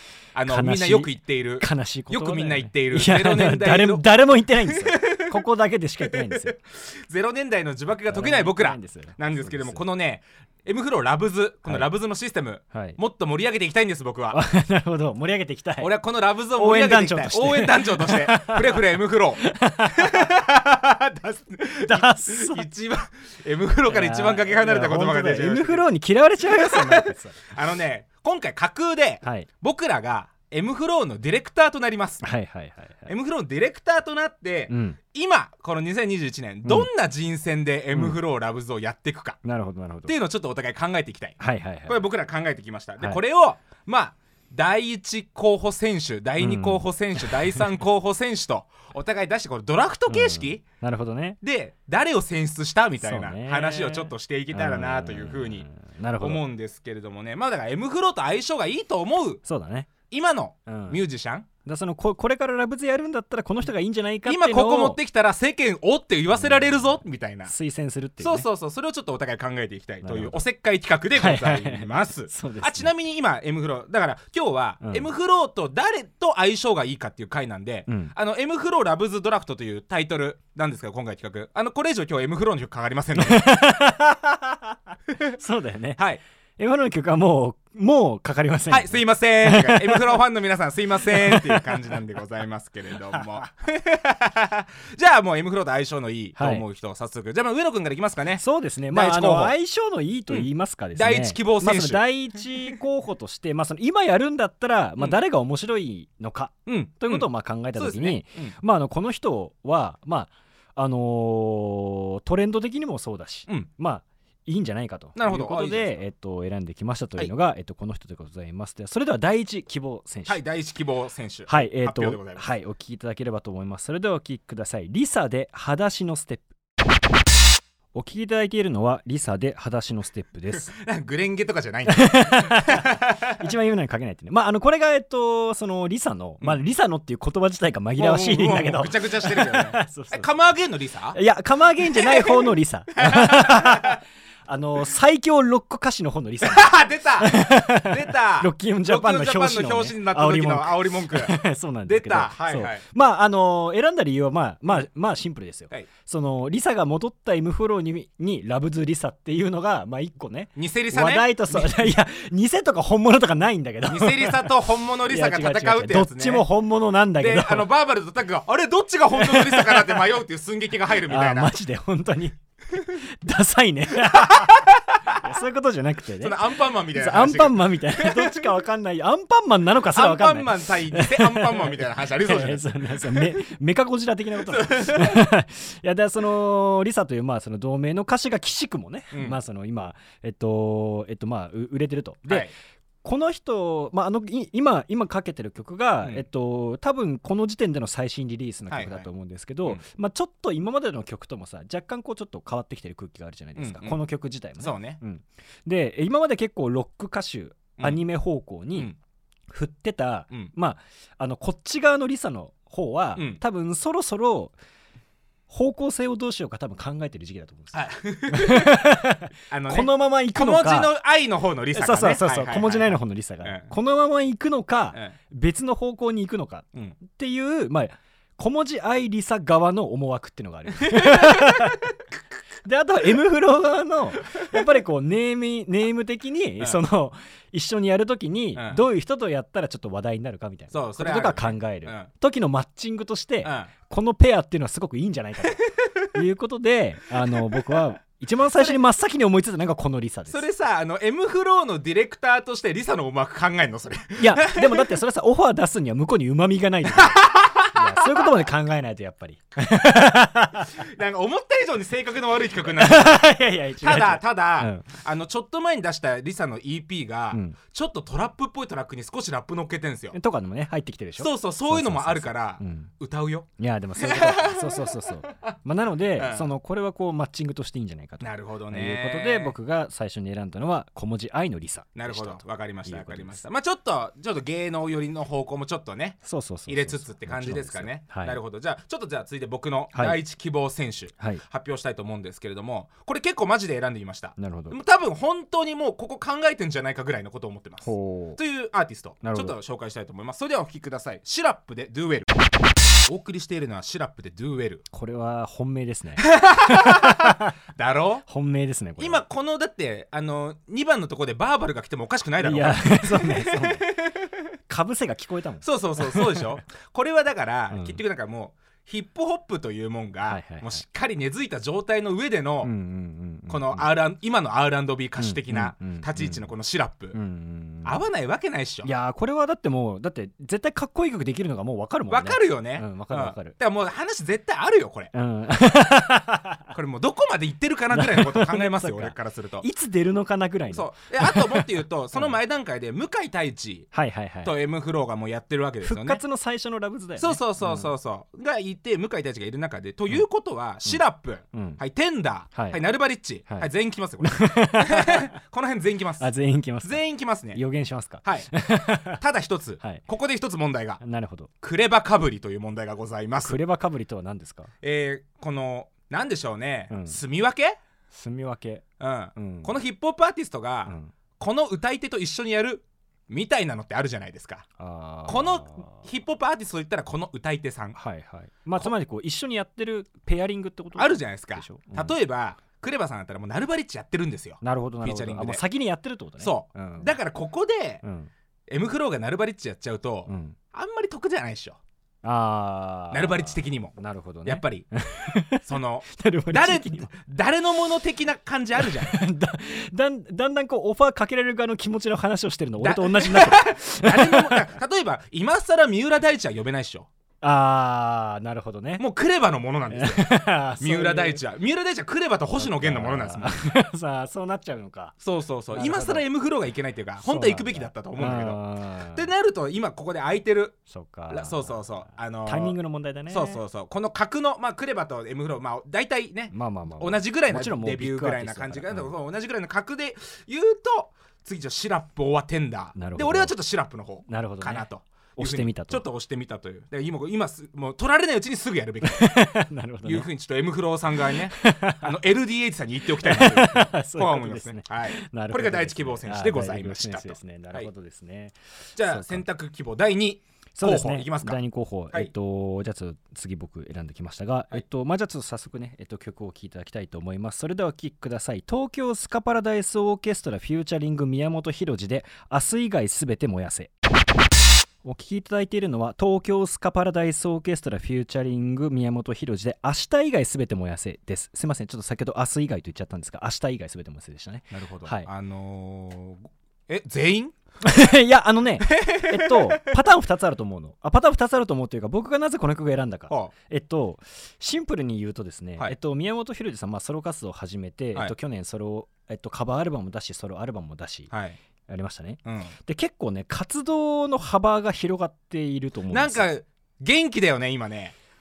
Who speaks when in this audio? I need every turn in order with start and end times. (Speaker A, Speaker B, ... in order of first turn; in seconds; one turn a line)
Speaker A: 0.3-4.1
Speaker B: 0.4-6.5
Speaker A: 4.6-5.4
Speaker A: 6.0-14.4
Speaker B: 8.1-9.8
Speaker B: 12.7-13.0
Speaker B: 14.3-15.9
Speaker A: 15.8-25.9
Speaker B: 16.5-18.8
Speaker B: 19.4-20.3
Speaker B: 21.8-22.6
Speaker B: 23.9-27.5
Speaker A: 26.4-32.2
Speaker B: 29.2-29.5
Speaker B: 32.2-33.1
Speaker A: 33.0-39.4
Speaker B: 34.7-35.0
Speaker B: 39.4-40.1
Speaker A: 40.1-50.6
Speaker B: 41.4-42.0
Speaker B: 46.4-47.7
Speaker B: 50.1-51.4
Speaker A: 51.4-55.6
Speaker B: 53.0-56.4
Speaker A: 56.2-59.4
Speaker B: 59.4-59.9
Speaker A: 60.1-61.5
Speaker B: 60.7-61.0
Speaker B: 61.6-65.0
Speaker A: 64.2-67.5
Speaker B: 66.3-68.5
Speaker A: 68.2-83.5
Speaker B: 70.0-70.4
Speaker B: 71.1-72.9
Speaker B: 74.8-75.1
Speaker B: 77.9-78.1
Speaker B: 83.2-84.7
Speaker B: 85.4-86.0
Speaker A: 86.0-86.2
Speaker B: 86.6-90.2
Speaker A: 88.7-99.5
Speaker B: 91.1-92.0
Speaker B: 96.4-96.7
Speaker B: 98.4-120.4
Speaker A: 100.3-102.0
Speaker A: 106.7-108.5
Speaker A: 115.2-116.0
Speaker A: 120.2-122.5
Speaker B: 121.5-126.5
Speaker B: 127.9-130.7
Speaker A: 130.5-133.3
Speaker B: 131.9-140.3
Speaker A: 138.0-141.2
Speaker B: 141.1-167.7
Speaker A: 141.8-144.0
Speaker A: 146.4-152.8
Speaker A: 160.6-162.0
Speaker A: 163.9-166.5
Speaker A: 167.1-171.6
Speaker B: 169.1-170.1
Speaker B: 171.0-192.5
Speaker A: 174.0-175.3
Speaker A: 176.2-178.5
Speaker A: 179.8-183.4
Speaker A: 184.4-185.3
Speaker A: 189.1-189.4
Speaker A: 192.2-192.5
Speaker B: 193.0-208.9
Speaker A: 198.7-199.1
Speaker A: 203.6-204.0
Speaker A: 204.6-205.0
Speaker B: 209.5-214.6
Speaker B: 215.5-220.9
Speaker A: 217.7-218.9
Speaker A: 219.5-223.7
Speaker B: 221.7-231.8
Speaker A: 230.8-231.8
Speaker B: 232.6-250.4
Speaker A: 238.6-238.8
Speaker A: 240.7-242.1
Speaker A: 243.4-243.7
Speaker A: 248.5-248.8
Speaker A: 250.3-254.9
Speaker B: 254.2-260.7
Speaker A: 256.9-258.3
Speaker A: 260.7-270.1
Speaker B: 262.7-264.9
Speaker B: 267.3-267.6
Speaker B: 270.1-272.9
Speaker A: 271.2-275.5
Speaker B: 273.6-283.4
Speaker A: 276.2-276.5
Speaker A: 278.2-279.5
Speaker A: 281.9-302.3
Speaker B: 286.2-288.4
Speaker B: 289.9-290.2
Speaker B: 294.4-294.8
Speaker B: 297.8-298.4
Speaker B: 299.2-299.6
Speaker A: 303.1-304.8
Speaker B: 304.9-307.4
Speaker A: 306.2-308.2
Speaker B: 308.2-309.2
Speaker A: 309.0-314.2
Speaker B: 312.4-313.9
Speaker B: 314.7-316.5
Speaker A: 315.6-322.7
Speaker B: 317.7-318.0
Speaker B: 320.3-320.8
Speaker B: 322.6-323.9
Speaker A: 323.5-327.2
Speaker B: 325.2-326.5
Speaker B: 327.1-328.0
Speaker A: 327.8-328.9
Speaker B: 328.8-333.6
Speaker A: 332.1-335.1
Speaker B: 335.1-336.6
Speaker A: 336.7-339.6
Speaker B: 337.9-342.4
Speaker A: 340.7-343.9
Speaker B: 343.9-344.5
Speaker A: 344.4-346.2
Speaker B: 345.8-347.9
Speaker A: 347.2-357.6
Speaker B: 350.8-351.8
Speaker B: 352.5-352.8
Speaker B: 353.5-355.3
Speaker B: 356.2-359.2
Speaker A: 358.2-358.5
Speaker A: 359.1-361.0
Speaker B: 361.0-361.5
Speaker A: 361.6-363.6
Speaker B: 363.4-364.7
Speaker A: 364.8-367.8
Speaker B: 366.9-367.2
Speaker B: 368.1-368.8
Speaker A: 369.0-374.6
Speaker B: 369.4-369.8
Speaker B: 370.9-371.1
Speaker B: 374.8-376.1
Speaker A: 375.3-378.0
Speaker B: 377.9-382.2
Speaker A: 380.9-385.6
Speaker B: 384.6-387.1
Speaker A: 386.4-388.0
Speaker B: 388.0-388.3
Speaker A: 388.7-391.8
Speaker B: 390.3-390.6
Speaker B: 392.2-397.1
Speaker A: 393.1-393.9
Speaker A: 394.4-394.9
Speaker A: 395.6-399.2
Speaker B: 398.8-404.7
Speaker A: 402.8-407.1
Speaker B: 407.4-409.0
Speaker A: 409.0-413.7
Speaker B: 409.9-411.4
Speaker B: 412.5-415.2
Speaker A: 415.2-420.8
Speaker B: 415.7-416.3
Speaker B: 417.2-419.3
Speaker B: 420.9-423.6
Speaker A: 421.3-422.8
Speaker A: 423.3-447.9
Speaker B: 426.5-429.1
Speaker B: 432.9-433.5
Speaker B: 434.2-436.0
Speaker B: 439.0-440.3
Speaker B: 441.5-442.2
Speaker B: 443.2-449.4
Speaker A: 448.9-451.6
Speaker B: 450.7-463.9
Speaker B: 465.0-475.3
Speaker A: 474.7-477.5
Speaker B: 477.8-491.3
Speaker A: 478.8-479.8
Speaker A: 491.3-491.6
Speaker B: 491.9-496.5
Speaker A: 492.4-492.7
Speaker A: 496.1-498.1